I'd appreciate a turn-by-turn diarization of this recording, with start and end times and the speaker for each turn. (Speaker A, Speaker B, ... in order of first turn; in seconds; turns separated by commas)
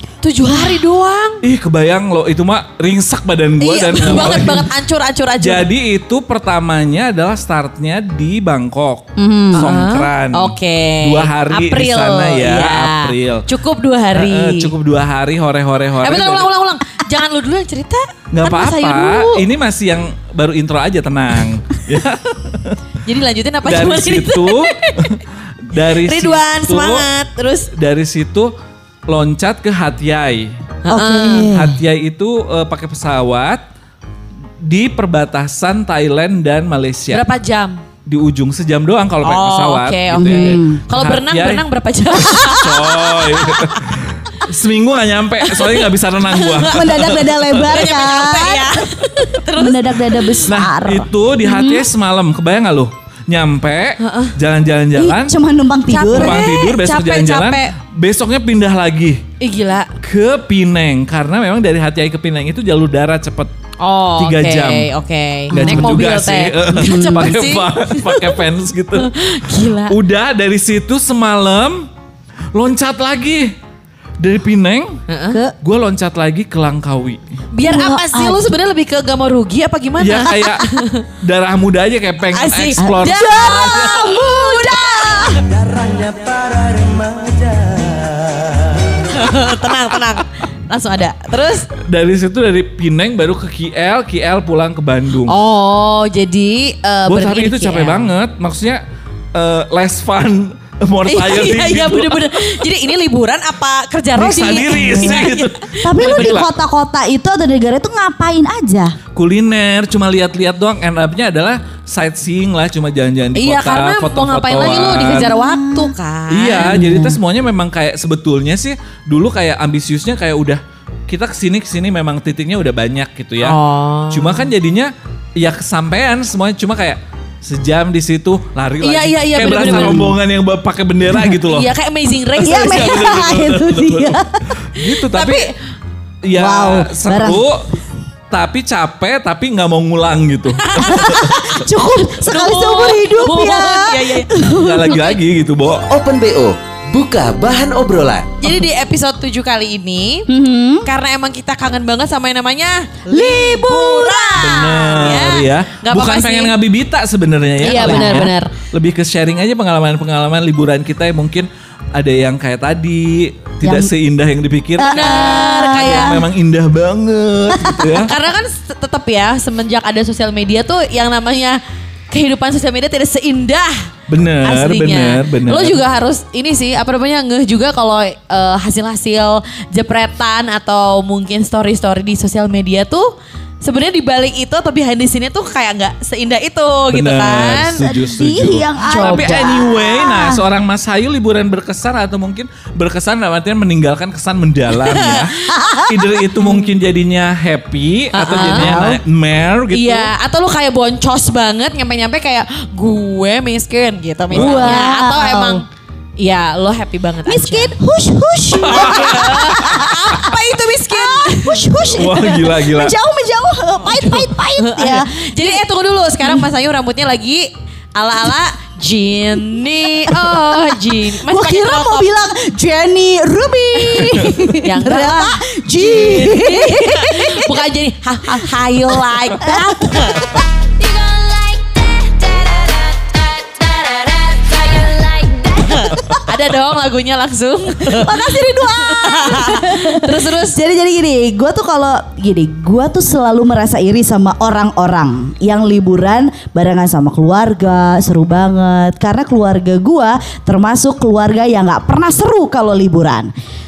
Speaker A: 0.2-1.4, Speaker B: 0.5-0.8, Speaker C: 1.4-4.7, Speaker A: 3.6-5.7, Speaker C: 5.4-13.5, Speaker B: 9.2-9.7, Speaker A: 9.5-14.7, Speaker C: 14.1-16.5, Speaker A: 16.0-19.4, Speaker C: 18.3-22.8, Speaker A: 23.0-25.1, Speaker C: 23.6-27.1, Speaker A: 25.8-27.7, Speaker C: 27.7-28.5, Speaker C: 29.1-30.6, Speaker A: 30.8-31.5, Speaker B: 30.9-31.8, Speaker C: 31.4-33.6, Speaker C: 34.6-37.2, Speaker A: 37.1-37.8, Speaker C: 38.1-41.6, Speaker A: 39.2-43.8, Speaker B: 40.2-40.8, Speaker C: 42.2-48.0, Speaker A: 45.4-50.5, Speaker B: 46.6-48.7, Speaker B: 49.6-51.9, Speaker C: 50.5-55.4, Speaker A: 54.0-54.3, Speaker B: 55.0-56.5, Speaker A: 55.9-57.7, Speaker C: 56.1-59.2, Speaker A: 59.4-59.9, Speaker C: 60.0-63.5, Speaker A: 63.8-68.4, Speaker C: 64.2-64.9, Speaker C: 65.5-71.9, Speaker B: 65.5-66.0, Speaker B: 66.7-67.4, Speaker A: 69.0-70.0, Speaker C: 72.5-73.5, Speaker C: 74.2-75.0, Speaker A: 75.1-75.4, Speaker C: 75.6-77.2, Speaker A: 77.5-81.0, Speaker B: 77.6-78.5, Speaker C: 80.0-80.7, Speaker C: 81.2-84.1, Speaker A: 82.3-85.4, Speaker B: 82.8-85.4, Speaker D: 85.5-89.0, Speaker A: 89.1-91.7, Speaker C: 91.8-95.3, Speaker A: 95.3-98.1, Speaker C: 97.1-98.8, Speaker C: 99.3-102.4, Speaker A: 101.1-106.4, Speaker C: 104.2-106.5, Speaker B: 104.5-105.3, Speaker B: 105.8-109.0, Speaker C: 109.2-115.3, Speaker A: 113.4-117.0, Speaker B: 114.8-115.9, Speaker C: 116.3-123.6, Speaker B: 116.6-117.2, Speaker A: 123.4-124.5, Speaker C: 124.1-131.7, Speaker A: 128.8-130.1, Speaker B: 129.4-130.1, Speaker A: 131.5-133.0, Speaker B: 132.4-134.4, Speaker C: 132.4-135.5, Speaker A: 134.9-135.6, Speaker C: 136.2-137.6, Speaker B: 136.3-137.5, Speaker C: 138.3-141.6, Speaker A: 140.6-141.6, Speaker B: 140.8-145.1, Speaker A: 142.3-144.3, Speaker C: 144.6-145.9, Speaker D: 145.9-148.3, Speaker A: 148.4-150.3, Speaker B: 150.3-150.8, Speaker A: 150.8-156.5, Speaker B: 153.1-155.1, Speaker C: 154.4-168.1, Speaker B: 157.6-158.3, Speaker A: 157.6-158.5, Speaker B: 163.6-163.9, Speaker B: 164.8-166.2, Speaker A: 164.9-166.2, Speaker B: 167.5-168.0, Speaker A: 168.0-171.6, Speaker A: 172.1-173.9, Speaker C: 174.1-175.8, Speaker A: 174.4-187.9, Speaker C: 186.9-200.1, Speaker B: 187.9-190.4, Speaker A: 188.9-189.6, Speaker A: 194.7-195.5, Speaker B: 195.5-196.6, Speaker A: 198.1-198.7, Speaker B: 198.3-199.0, Speaker A: 199.7-205.7, Speaker B: 204.3-205.6, Speaker C: 204.3-204.8, Speaker A: 206.2-207.8, Speaker B: 207.3-210.3, Speaker C: 208.6-209.8, Speaker A: 208.7-211.7, Speaker B: 210.9-215.6, Speaker C: 211.9-212.9, Speaker A: 213.9-222.1, Speaker B: 219.9-227.6, Speaker A: 224.0-230.3, Speaker B: 229.4-232.3, Speaker A: 232.2-238.2, Speaker B: 233.8-236.2, Speaker B: 237.9-253.3, Speaker A: 238.8-240.6